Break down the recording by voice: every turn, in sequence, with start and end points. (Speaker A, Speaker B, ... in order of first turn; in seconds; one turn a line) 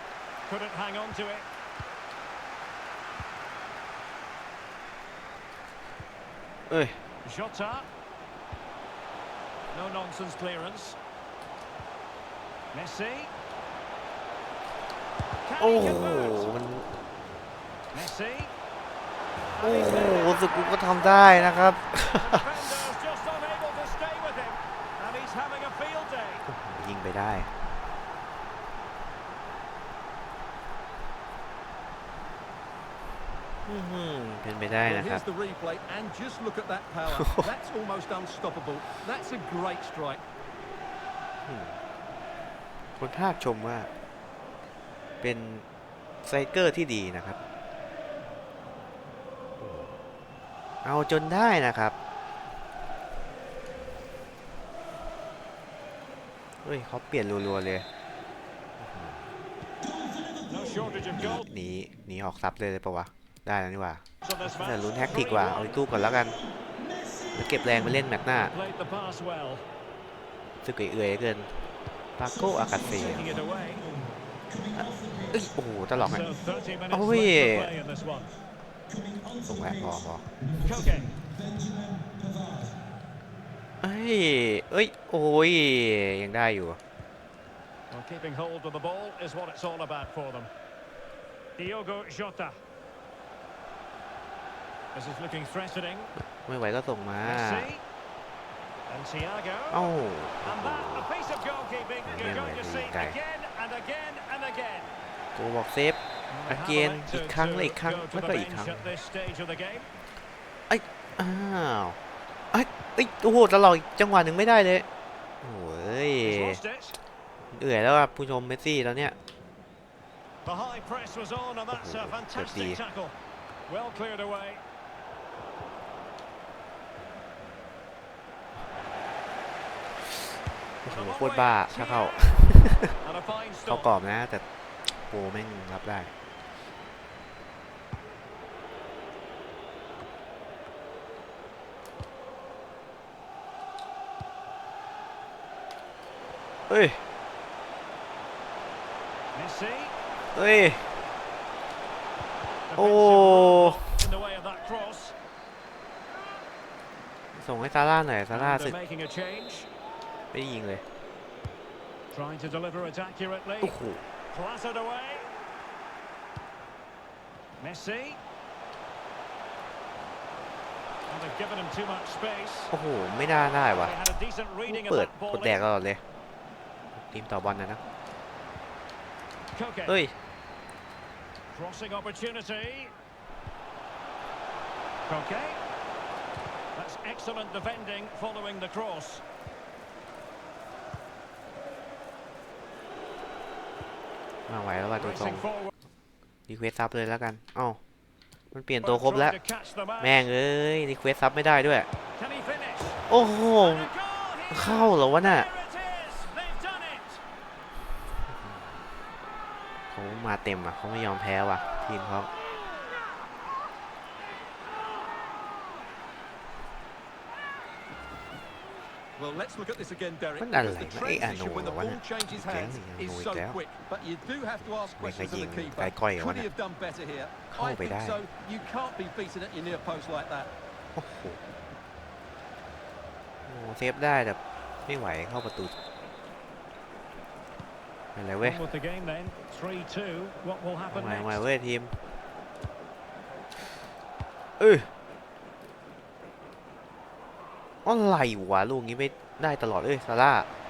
Speaker A: 0.5-1.5
Speaker B: 6.7-7.0
Speaker A: 7.2-7.9
Speaker A: 9.7-11.0
Speaker A: 12.7-13.3
Speaker A: 15.4-16.5
Speaker B: 15.6-16.9
Speaker A: 17.9-18.5
Speaker A: 19.6-26.5
Speaker B: 19.6-22.5
Speaker B: 26.5-27.6
Speaker B: 33.7-35.2
Speaker C: 34.8-40.2
Speaker B: 37.1-37.5
Speaker B: 41.5-41.8
Speaker B: 43.0-43.9
Speaker B: 45.2-45.6
Speaker B: 46.2-47.4
Speaker B: 49.6-50.0
Speaker B: 50.8-52.0
Speaker B: 56.6-57.9
Speaker B: 58.8-59.4
Speaker A: 60.5-61.5
Speaker B: 61.2-66.4
Speaker A: 64.2-65.8
Speaker B: 67.3-68.5
Speaker A: 68.3-69.6
Speaker B: 70.6-71.5
Speaker B: 72.2-73.4
Speaker A: 72.8-73.9
Speaker B: 74.8-76.4
Speaker A: 76.0-78.3
Speaker B: 76.9-77.7
Speaker B: 79.5-80.3
Speaker A: 80.6-81.2
Speaker B: 83.8-86.8
Speaker A: 87.9-90.5
Speaker A: 91.6-92.6
Speaker A: 94.9-96.1
Speaker B: 96.2-97.7
Speaker A: 97.2-97.8
Speaker A: 98.9-104.9
Speaker B: 99.7-101.1
Speaker B: 102.0-103.2
Speaker B: 105.3-108.9
Speaker A: 106.3-109.9
Speaker B: 110.7-112.0
Speaker B: 112.5-114.9
Speaker B: 115.4-116.6
Speaker A: 116.2-117.0
Speaker B: 117.5-119.2
Speaker A: 120.4-123.2
Speaker B: 121.7-122.8
Speaker A: 123.7-124.6
Speaker B: 130.8-132.9
Speaker A: 130.9-132.4
Speaker A: 133.0-133.9
Speaker B: 133.7-136.1
Speaker B: 146.7-147.0
Speaker A: 149.3-149.9
Speaker B: 150.3-150.9
Speaker A: 152.7-155.2
Speaker B: 152.8-153.8
Speaker B: 157.3-158.8
Speaker A: 158.3-159.7
Speaker B: 160.3-160.8
Speaker A: 162.1-163.8
Speaker B: 163.6-164.1
Speaker A: 164.3-165.3
Speaker A: 167.6-168.2
Speaker A: 171.1-172.7
Speaker B: 172.7-174.0
Speaker A: 173.8-175.7
Speaker B: 174.7-176.0
Speaker B: 176.9-177.8
Speaker A: 179.5-180.0
Speaker B: 179.9-180.1
Speaker A: 181.5-182.9
Speaker A: 185.1-185.6
Speaker A: 186.8-189.2
Speaker B: 194.5-195.5
Speaker A: 195.0-195.7
Speaker B: 196.5-197.8
Speaker B: 198.5-199.4
Speaker A: 198.8-200.3
Speaker B: 200.0-201.9
Speaker A: 202.2-203.0
Speaker B: 203.1-203.9
Speaker A: 203.6-207.2
Speaker B: 204.5-205.5
Speaker B: 208.3-208.7
Speaker B: 209.9-212.3
Speaker C: 219.2-230.5
Speaker B: 220.4-223.6
Speaker B: 225.0-226.5
Speaker B: 227.5-228.2
Speaker B: 231.0-231.4
Speaker B: 233.5-235.7
Speaker B: 238.2-238.6
Speaker A: 238.4-241.4
Speaker B: 240.9-242.0
Speaker B: 244.6-244.9
Speaker B: 247.8-250.5